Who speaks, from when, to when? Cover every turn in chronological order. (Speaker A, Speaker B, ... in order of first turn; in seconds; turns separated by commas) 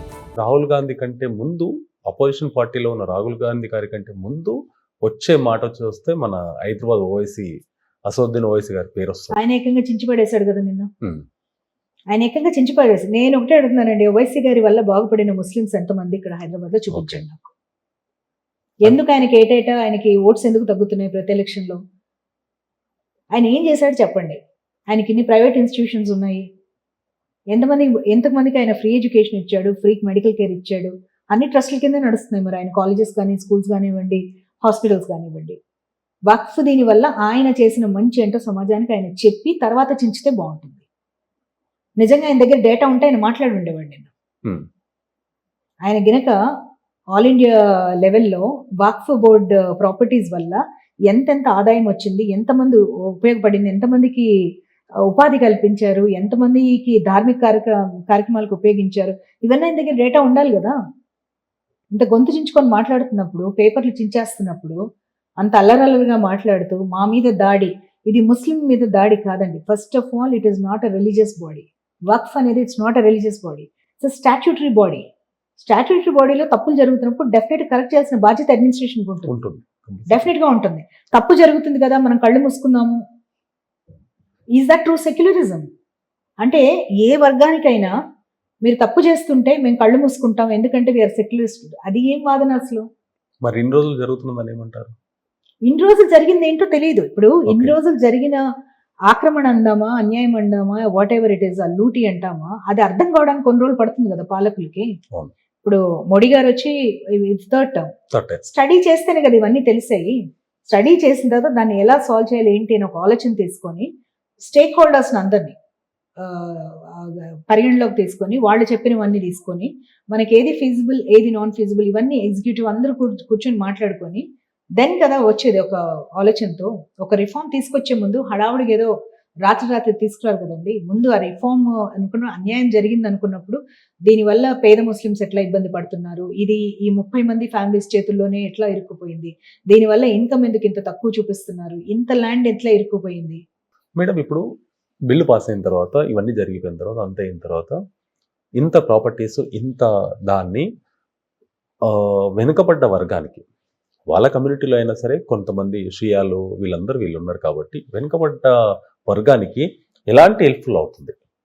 Speaker A: 0.4-7.5, Speaker A: 8.1-9.3, Speaker B: 9.3-10.9, Speaker B: 12.1-17.5, Speaker A: 16.9-17.2, Speaker B: 18.8-21.8, Speaker B: 23.3-24.4, Speaker B: 24.9-26.4, Speaker B: 27.5-35.6, Speaker B: 36.3-40.8, Speaker B: 42.0-44.1, Speaker B: 45.8-46.4, Speaker B: 47.1-54.3, Speaker B: 55.1-60.7, Speaker B: 61.9-64.8, Speaker B: 65.4-75.0, Speaker B: 75.6-79.4, Speaker A: 79.3-80.3, Speaker B: 80.1-83.0, Speaker B: 84.5-85.7, Speaker B: 86.4-87.9, Speaker B: 88.6-92.8, Speaker A: 93.4-94.9, Speaker B: 95.6-98.4, Speaker A: 97.5-97.8, Speaker B: 99.1-104.9, Speaker B: 105.6-107.9, Speaker A: 108.1-108.4, Speaker B: 108.4-113.9, Speaker B: 114.4-115.5, Speaker B: 116.2-124.2, Speaker B: 124.8-128.9, Speaker B: 129.4-143.4, Speaker A: 144.0-144.4, Speaker A: 145.1-147.8, Speaker A: 148.6-150.7, Speaker A: 151.8-153.4, Speaker A: 154.1-158.5, Speaker A: 159.1-161.1